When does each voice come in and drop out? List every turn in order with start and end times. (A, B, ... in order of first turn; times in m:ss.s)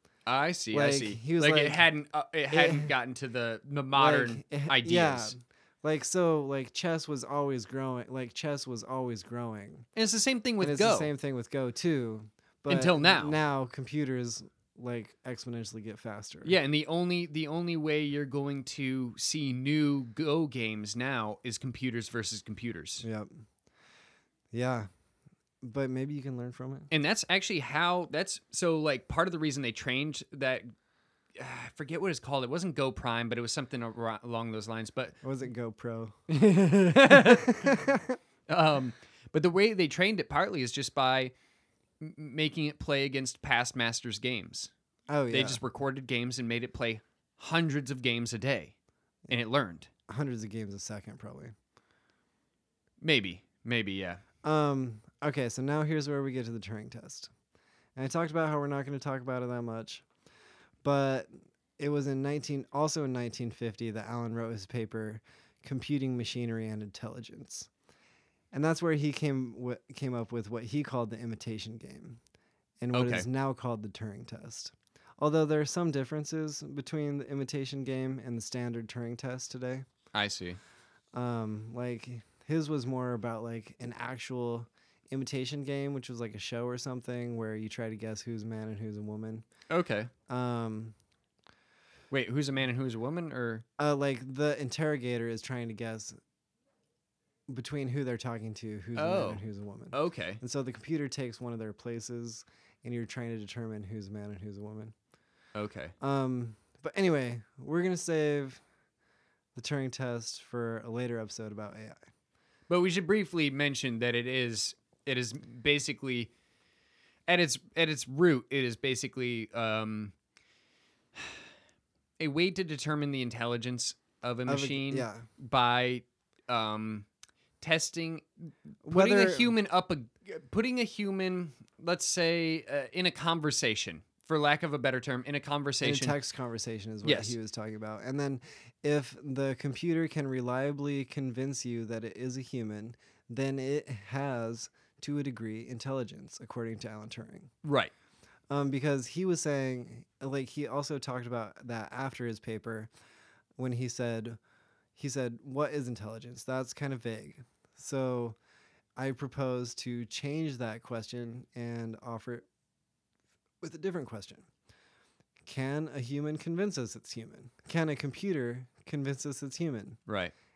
0:00.2-0:05.3 A
0:00.7-0:01.8 B
0:02.5-0:02.9 B
0:03.9-0:09.9 B
0:09.9-0:11.1 A
0:10.6-0:16.6 B
0:12.7-0:13.4 A
0:16.4-0:23.0 A
0:23.0-0:23.4 B
0:24.5-0:24.9 B
0:25.6-0:26.9 B
0:26.9-0:30.7 A
0:31.3-0:35.2 A
0:35.2-0:38.2 B
0:36.3-0:37.8 A
0:38.5-0:41.3 A
0:42.0-0:44.7 A
0:45.1-0:45.6 B
0:45.3-0:48.7 A
0:49.3-0:49.9 A
0:50.1-0:51.5 B
0:53.0-0:54.2 A
0:54.4-0:57.3 B
0:58.0-1:00.0 B
1:00.8-1:07.7 B
1:08.5-1:12.2 B
1:12.8-1:19.8 B
1:12.9-1:13.3 A
1:20.1-1:20.6 A
1:21.1-1:29.4 B
1:29.7-1:30.1 A
1:30.3-1:30.9 B
1:32.1-1:33.6 A
1:33.8-1:36.2 B
1:37.5-1:44.9 B
1:39.0-1:40.4 A
1:45.5-1:45.9 A
1:46.0-1:48.6 B
1:49.6-1:52.0 B
1:52.7-1:56.3 A
1:57.3-2:00.1 A
2:01.1-2:01.4 A
2:02.2-2:07.1 A
2:04.4-2:05.2 B
2:07.6-2:16.2 A
2:08.8-2:09.5 B
2:15.8-2:27.5 B
2:17.0-2:17.4 A
2:27.6-2:27.9 A
2:28.5-2:32.9 B
2:33.6-2:34.4 B
2:35.0-2:38.4 B
2:39.0-2:42.4 B
2:43.6-2:44.5 B
2:45.4-2:50.0 B
2:50.1-2:50.3 A